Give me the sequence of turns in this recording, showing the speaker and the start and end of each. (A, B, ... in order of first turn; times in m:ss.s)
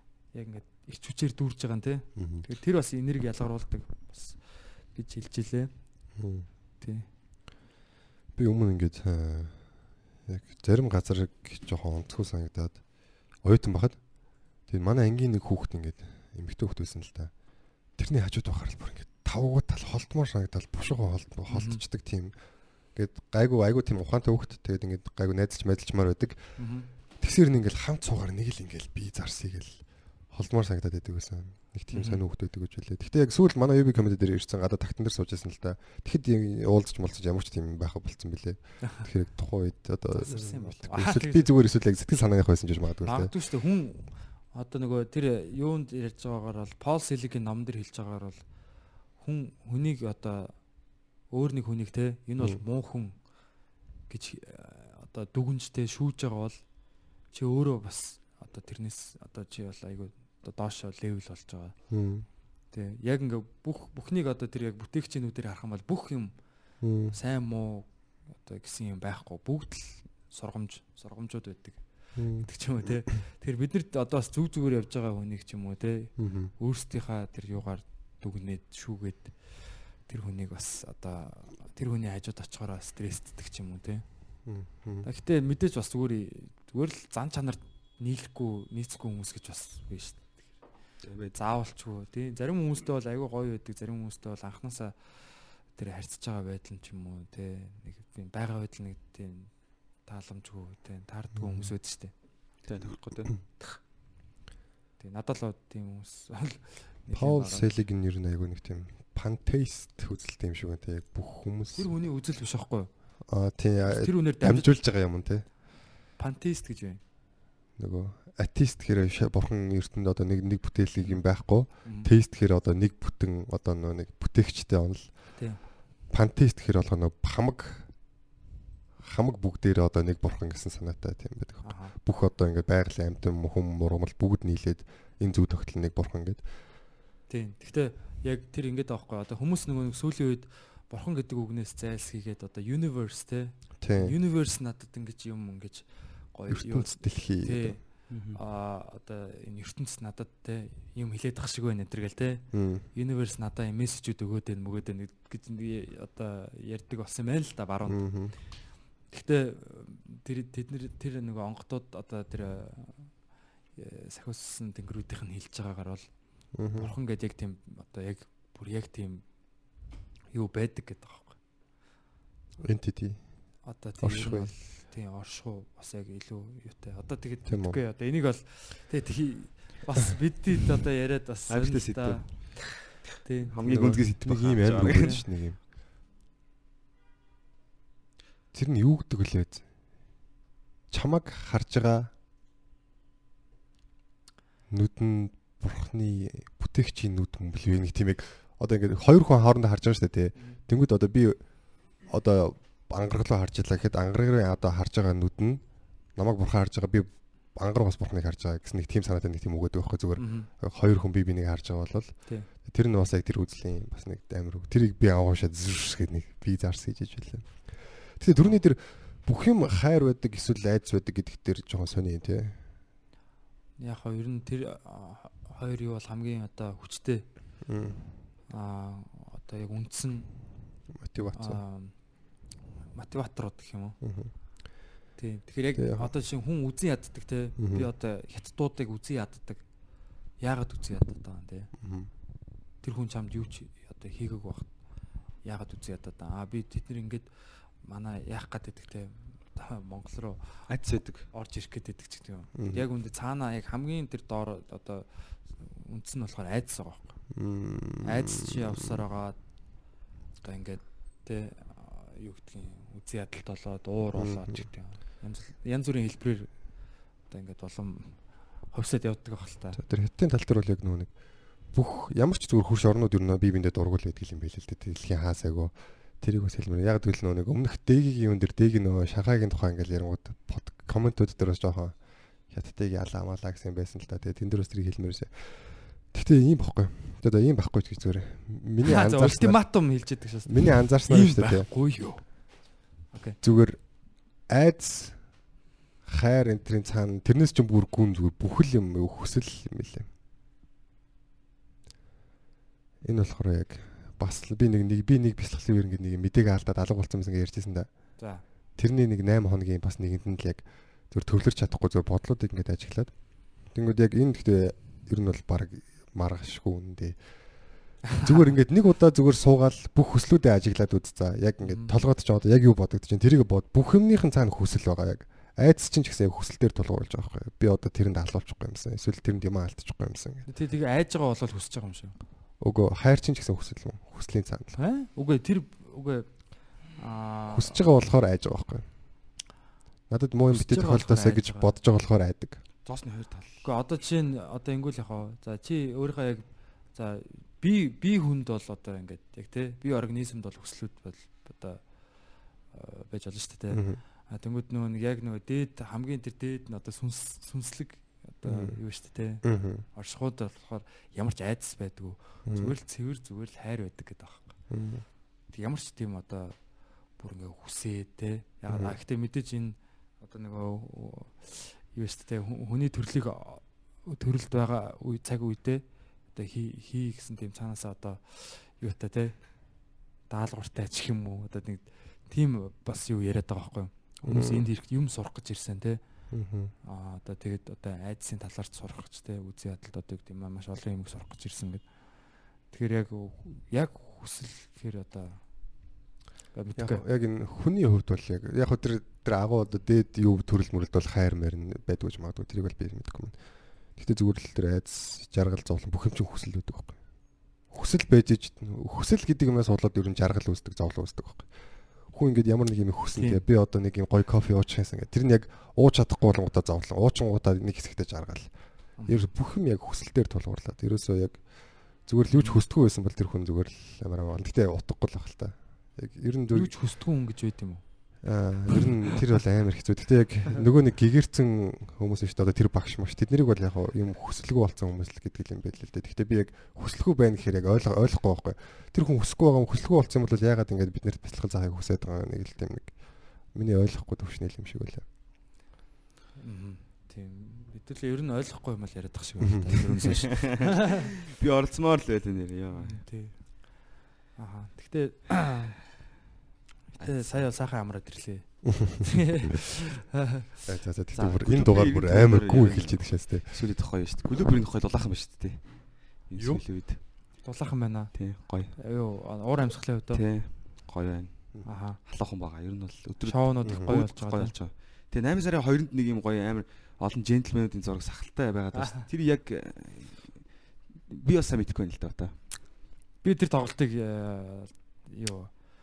0:00.3-0:04.4 A
0:02.2-0:02.4 B
0:04.9-0:05.7 A
0:06.2-0:06.5 B
0:06.8-0:07.1 A
0:08.4-0:09.7 B
0:10.3-0:12.8 B
0:13.4-0:14.0 B
0:14.7-0:17.3 B
0:18.0-0:22.4 B
0:21.5-0:21.8 A
0:22.9-0:26.6 B
0:26.6-0:26.9 A
0:27.2-0:43.3 B
0:31.9-0:32.2 A
0:40.1-0:41.5 A
0:43.0-0:48.4 A
0:49.2-0:50.5 A
0:51.3-0:53.2 A
0:54.1-0:56.6 A
0:57.3-1:01.8 A
1:01.9-1:02.3 B
1:02.7-1:06.3 A
1:06.8-1:07.1 B
1:07.1-1:19.4 A
1:12.2-1:12.5 B
1:16.2-1:16.5 B
1:20.0-1:24.0 A
1:24.5-1:25.1 B
1:25.0-1:30.4 A
1:31.0-1:31.4 C
1:31.3-1:39.5 A
1:40.1-1:42.1 A
1:41.4-1:41.7 B
1:42.6-1:43.3 C
1:45.0-1:47.7 A
1:47.1-1:51.9 B
1:51.7-1:52.9 A
1:53.3-1:55.5 B
1:53.9-1:54.8 A
1:56.2-1:57.0 A
1:57.8-2:05.4 B
2:01.8-2:02.1 A
2:06.1-2:07.9 B
2:09.0-2:16.4 B
2:11.6-2:11.9 A
2:17.3-2:38.0 A
2:23.8-2:24.1 B
2:26.5-2:27.8 B
2:28.1-2:28.4 C
2:32.5-2:32.9 B
2:37.9-2:38.4 B
2:39.1-2:43.1 A
2:43.8-2:46.1 A
2:46.6-2:46.9 B
2:46.8-2:49.2 A
2:50.3-2:51.4 A
2:52.6-2:53.3 B
2:53.6-3:02.7 A
2:54.0-2:54.5 B
2:57.5-2:57.8 B
3:01.5-3:02.6 C
3:03.2-3:03.5 A
3:03.5-3:05.2 C
3:03.6-3:05.6 B
3:04.8-3:05.2 A
3:08.5-3:09.7 B
3:10.9-3:12.1 B
3:14.7-3:21.4 B
3:22.0-3:42.6 B
3:30.2-3:30.5 A
3:43.8-3:47.3 A
3:47.6-3:48.0 B
3:48.5-3:50.4 A
3:51.0-3:51.6 B
3:51.3-3:52.0 A
3:52.9-3:54.0 A
3:54.0-3:54.3 B
3:55.2-3:59.6 A
3:55.8-3:56.1 B
3:57.6-3:57.9 B
4:00.4-4:01.7 A
4:01.8-4:02.1 B
4:02.8-4:04.7 A
4:05.4-4:07.3 A
4:07.8-4:10.7 A
4:10.7-4:11.3 C
4:11.3-4:15.1 A
4:12.6-4:12.8 B
4:15.6-4:17.2 A
4:17.3-4:19.0 B
4:18.0-4:19.4 A
4:20.4-4:26.5 A
4:24.2-4:24.7 B
4:27.3-4:29.8 A
4:29.8-4:49.6 B
4:48.8-4:52.4 A
4:50.5-4:51.7 B
4:53.1-4:53.4 A
4:53.4-4:55.4 B
4:56.1-5:00.1 B
5:03.0-5:07.9 B
5:08.2-5:08.4 A
5:08.8-5:30.5 B
5:21.6-5:22.0 A
5:30.5-5:32.2 A
5:32.6-5:34.7 B
5:34.7-5:37.8 A
5:37.5-5:38.9 B
5:40.1-5:42.6 B
5:40.5-5:41.7 A
5:42.8-5:43.7 C
5:43.6-5:51.8 A
5:52.7-6:04.5 A
5:53.7-5:54.0 B
5:58.4-5:58.8 B
5:59.4-5:59.8 B
6:02.5-6:02.7 B
6:04.7-6:05.0 B
6:05.5-6:06.6 A
6:07.2-6:15.8 A
6:08.7-6:08.9 B
6:16.3-6:19.4 A
6:20.3-6:26.0 A
6:24.3-6:24.7 B
6:26.3-6:26.7 B
6:26.8-6:31.9 A
6:32.7-6:35.4 A
6:36.5-6:37.0 A
6:36.8-7:06.7 B
6:53.2-6:53.4 A
6:59.0-6:59.3 A
7:02.3-7:02.6 A
7:06.5-7:07.8 A
7:08.2-7:25.0 B
7:26.4-7:30.7 A
7:29.4-7:30.1 B
7:30.3-7:33.0 C
7:32.8-7:35.8 A
7:37.0-7:37.5 C
7:37.0-7:40.5 A
7:40.7-7:43.5 B
7:41.2-7:47.0 C
7:46.4-7:48.2 A
7:48.1-7:48.8 C
7:48.8-7:50.2 A
7:50.1-8:00.6 C
7:51.6-7:52.0 A
7:53.2-7:54.5 A
7:53.7-7:53.9 B
7:58.8-7:59.0 A
8:01.1-8:02.4 C
8:03.2-8:05.5 A